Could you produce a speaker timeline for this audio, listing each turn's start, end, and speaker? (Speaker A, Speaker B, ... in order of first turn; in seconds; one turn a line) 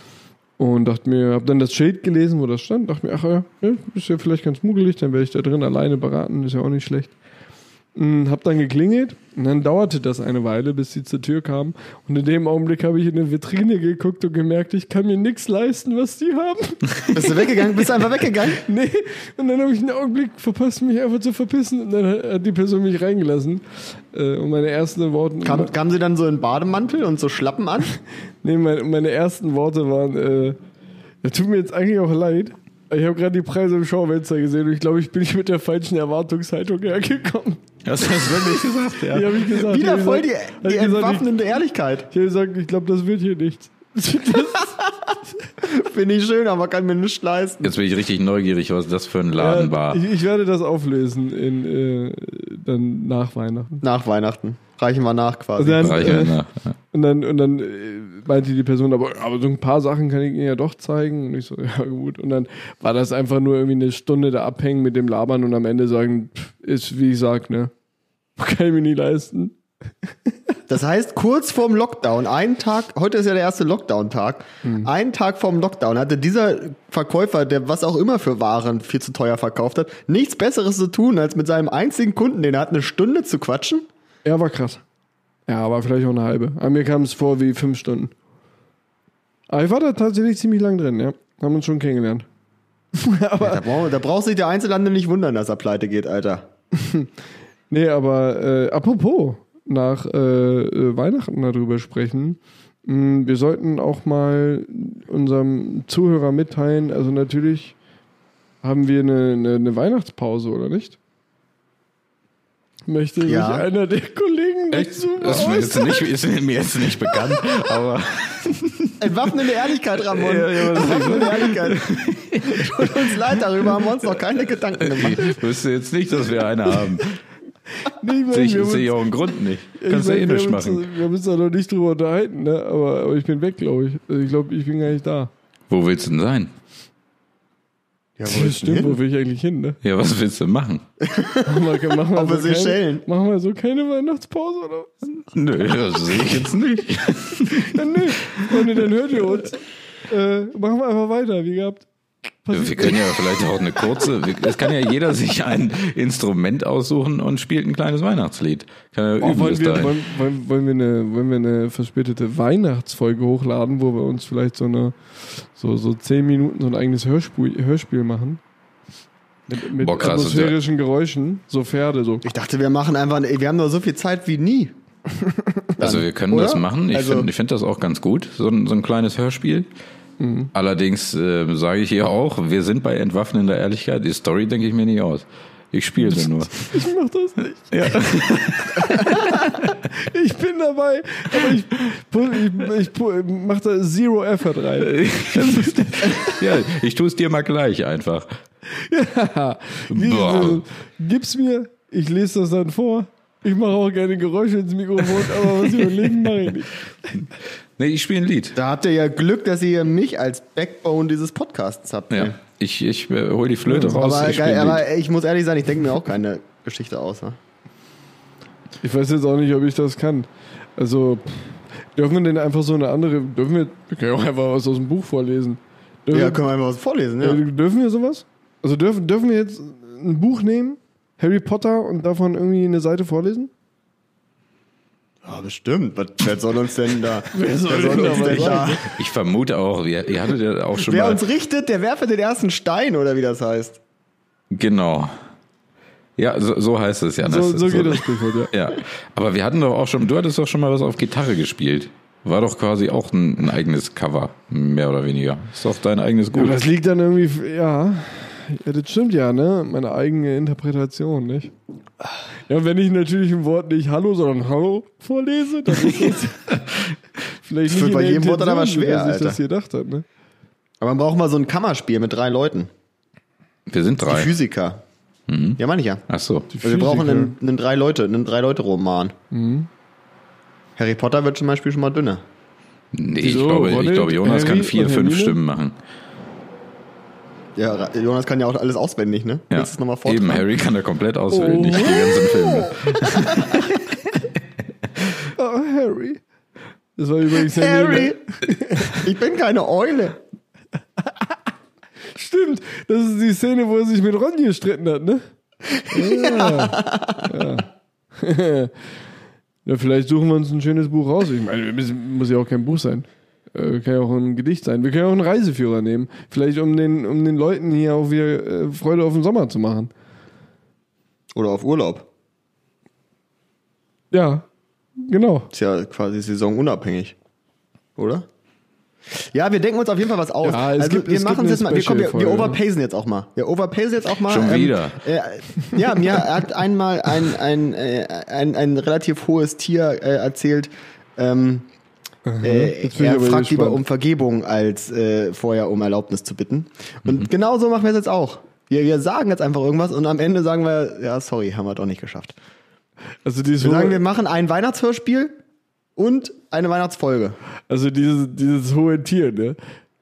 Speaker A: 0.6-7.1
Speaker A: 7.9-25.7
Speaker B: 17.1-18.6
Speaker B: 25.4-27.9
Speaker A: 28.4-30.6
Speaker A: 31.2-37.6
Speaker C: 37.8-39.4
Speaker A: 39.1-41.3
Speaker B: 39.5-42.1
Speaker A: 42.1-44.8
Speaker B: 45.6-47.7
Speaker C: 47.6-50.0
Speaker A: 49.3-53.8
Speaker B: 53.8-56.1
Speaker A: 55.6-56.4
Speaker C: 55.8-56.7
Speaker A: 56.9-67.7
Speaker A: 68.4-69.5
Speaker B: 70.7-83.8
Speaker A: 74.6-74.9
Speaker A: 84.2-84.8
Speaker A: 85.5-88.1
Speaker A: 89.5-92.2
Speaker A: 92.9-93.6
Speaker B: 93.4-96.5
Speaker A: 96.8-97.1
Speaker A: 97.7-107.7
Speaker A: 108.6-111.0
Speaker A: 112.8-116.0
Speaker B: 113.2-113.7
Speaker C: 114.7-119.1
Speaker B: 119.0-125.4
Speaker C: 120.1-123.2
Speaker A: 120.7-121.5
Speaker C: 124.7-127.2
Speaker A: 127.8-129.1
Speaker C: 128.3-130.9
Speaker A: 129.8-135.3
Speaker C: 135.7-136.5
Speaker B: 138.2-139.0
Speaker A: 138.2-139.8
Speaker C: 139.8-140.8
Speaker B: 141.0-143.0
Speaker A: 141.4-144.9
Speaker C: 145.2-148.8
Speaker A: 147.4-151.9
Speaker A: 152.4-153.2
Speaker C: 152.5-159.9
Speaker A: 159.2-168.4
Speaker A: 169.5-172.2
Speaker C: 169.8-170.6
Speaker B: 172.2-174.7
Speaker B: 175.8-177.3
Speaker C: 175.8-179.7
Speaker A: 180.2-180.5
Speaker C: 180.5-186.8
Speaker A: 186.0-196.4
Speaker C: 187.7-189.8
Speaker C: 194.8-198.3
Speaker A: 198.7-206.8
Speaker C: 199.9-200.6
Speaker C: 205.4-206.1
Speaker C: 207.8-208.6
Speaker B: 208.5-212.4
Speaker C: 212.1-214.8
Speaker A: 213.7-214.0
Speaker B: 214.0-217.4
Speaker A: 218.8-226.4
Speaker B: 226.1-227.4
Speaker A: 227.2-233.5
Speaker B: 235.2-238.9
Speaker A: 237.3-238.8
Speaker C: 238.5-241.2
Speaker B: 240.8-243.8
Speaker C: 244.5-245.1
Speaker C: 246.2-256.6
Speaker A: 247.2-248.5
Speaker A: 256.3-261.5
Speaker A: 262.5-266.9
Speaker A: 267.4-270.0
Speaker B: 267.6-269.4
Speaker B: 270.8-272.7
Speaker C: 273.7-274.3
Speaker B: 274.1-274.8
Speaker C: 275.3-276.5
Speaker B: 275.6-276.0
Speaker A: 276.5-277.4
Speaker B: 276.6-279.1
Speaker A: 279.3-279.7
Speaker B: 280.8-282.2
Speaker C: 282.9-285.8
Speaker A: 283.2-285.4
Speaker B: 287.6-290.4
Speaker C: 289.5-294.0
Speaker A: 291.3-292.4
Speaker B: 292.4-293.6
Speaker A: 295.4-296.2
Speaker A: 297.0-299.0
Speaker B: 297.4-300.2
Speaker A: 302.1-305.2
Speaker B: 305.7-307.3
Speaker A: 305.9-308.7
Speaker A: 309.6-319.9
Speaker B: 321.4-322.1
Speaker A: 324.1-324.4
Speaker A: 325.0-325.5
Speaker B: 325.5-327.1
Speaker B: 328.0-328.2
Speaker B: 329.1-341.7
Speaker A: 330.4-332.6
Speaker C: 334.2-335.0
Speaker A: 342.2-343.8
Speaker B: 342.4-352.4
Speaker A: 353.2-354.0
Speaker B: 353.6-355.4
Speaker B: 355.9-357.4
Speaker A: 357.7-359.6